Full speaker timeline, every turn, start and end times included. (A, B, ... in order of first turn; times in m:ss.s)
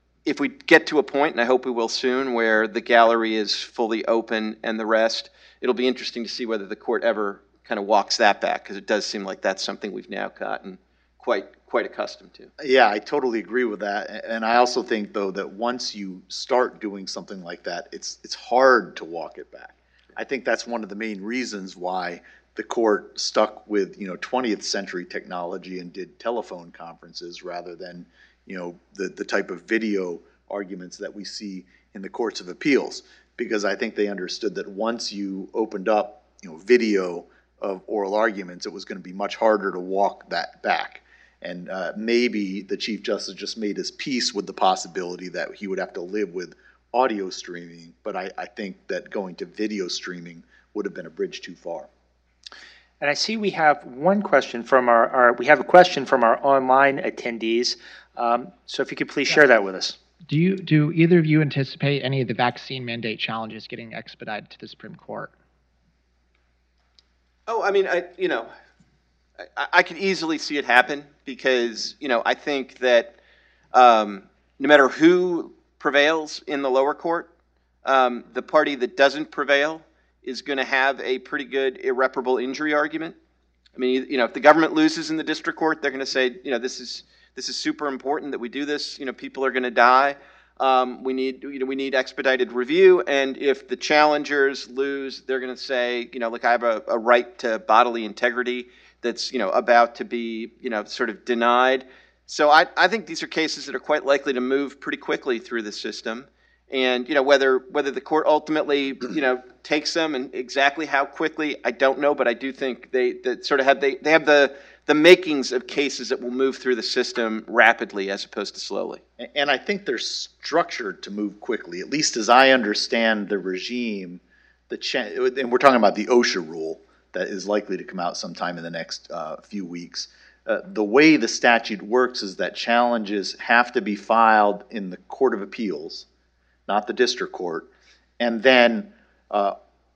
0:00.3-0:12.5 A
0:12.6-0:51.9 B
0:53.0-1:00.0 C
1:00.3-1:05.3 D
1:07.5-1:08.5 A
1:09.6-1:13.2 A
1:13.7-1:17.3 A
1:17.8-1:23.2 A
1:23.8-1:59.0 A
1:59.2-2:16.1 B
2:16.7-2:19.6 B